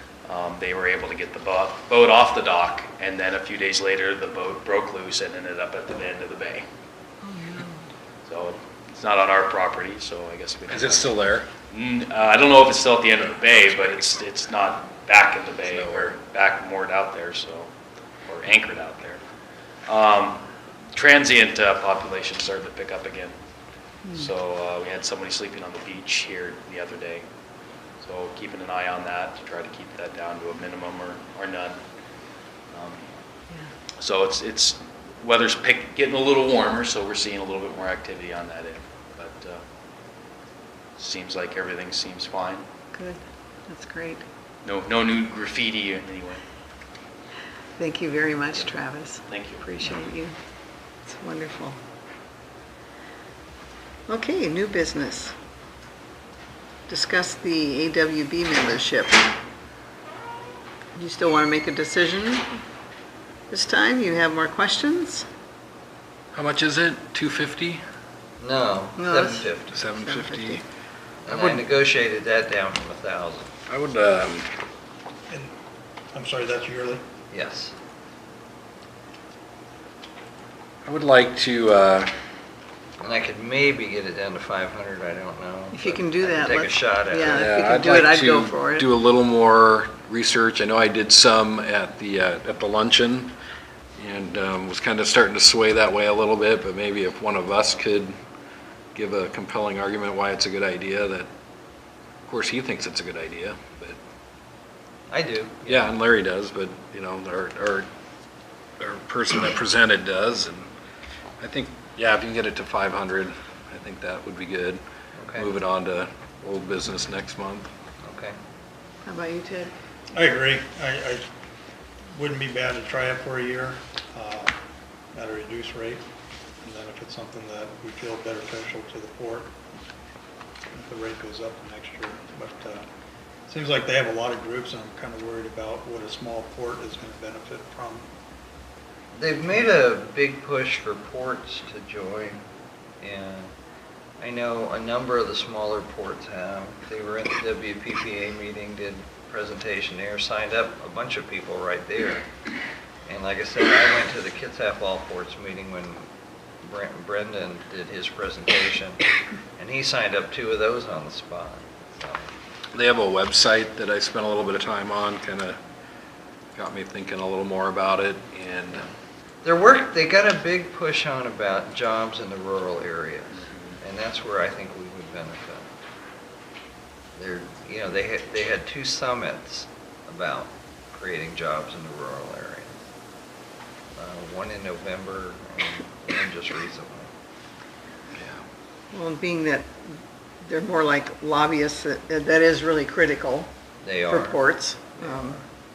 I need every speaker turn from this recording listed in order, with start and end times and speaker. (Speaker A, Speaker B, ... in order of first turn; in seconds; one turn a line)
Speaker A: 0.2-6.6
Speaker B: 7.2-7.8
Speaker A: 8.2-17.7
Speaker C: 10.7-11.5
Speaker C: 15.7-16.1
Speaker A: 18.2-19.2
Speaker A: 19.9-23.4
Speaker A: 24.1-27.2
Speaker A: 28.0-31.8
Speaker A: 32.7-33.0
Speaker A: 34.0-39.6
Speaker A: 41.0-42.6
Speaker B: 42.9-44.2
Speaker A: 44.6-46.4
Speaker B: 47.8-50.3
Speaker A: 49.3-50.0
Speaker B: 51.1-51.8
Speaker B: 54.1-55.3
Speaker B: 56.9-59.2
Speaker B: 61.0-62.6
Speaker B: 63.5-65.2
Speaker C: 66.3-67.8
Speaker D: 68.4-69.8
Speaker B: 69.0-70.6
Speaker C: 69.7-70.6
Speaker D: 71.2-73.5
Speaker C: 71.3-71.6
Speaker C: 73.7-74.5
Speaker E: 75.3-75.5
Speaker E: 76.1-77.0
Speaker D: 77.3-77.7
Speaker C: 80.8-82.1
Speaker D: 83.0-87.5
Speaker B: 85.7-88.8
Speaker C: 87.3-93.3
Speaker C: 94.0-98.1
Speaker C: 98.9-101.3
Speaker C: 102.3-104.0
Speaker D: 105.1-105.9
Speaker C: 105.7-107.9
Speaker C: 108.8-110.7
Speaker C: 111.4-117.7
Speaker D: 115.2-115.5
Speaker D: 118.0-118.3
Speaker B: 119.0-119.7
Speaker E: 120.1-121.3
Speaker E: 122.1-124.5
Speaker E: 125.1-126.0
Speaker E: 126.6-129.6
Speaker E: 130.7-132.9
Speaker E: 133.5-138.1
Speaker D: 139.1-142.4
Speaker D: 143.0-143.5
Speaker D: 144.2-152.2
Speaker D: 153.1-156.1
Speaker D: 156.6-159.0
Speaker D: 159.6-162.3
Speaker C: 162.7-165.6
Speaker C: 166.5-168.9
Speaker D: 169.4-175.7
Speaker D: 177.2-182.7
Speaker D: 183.9-187.1
Speaker C: 188.1-188.4
Speaker B: 188.9-189.9
Speaker B: 190.4-193.5
Speaker D: 193.8-195.4
Speaker B: 194.1-195.4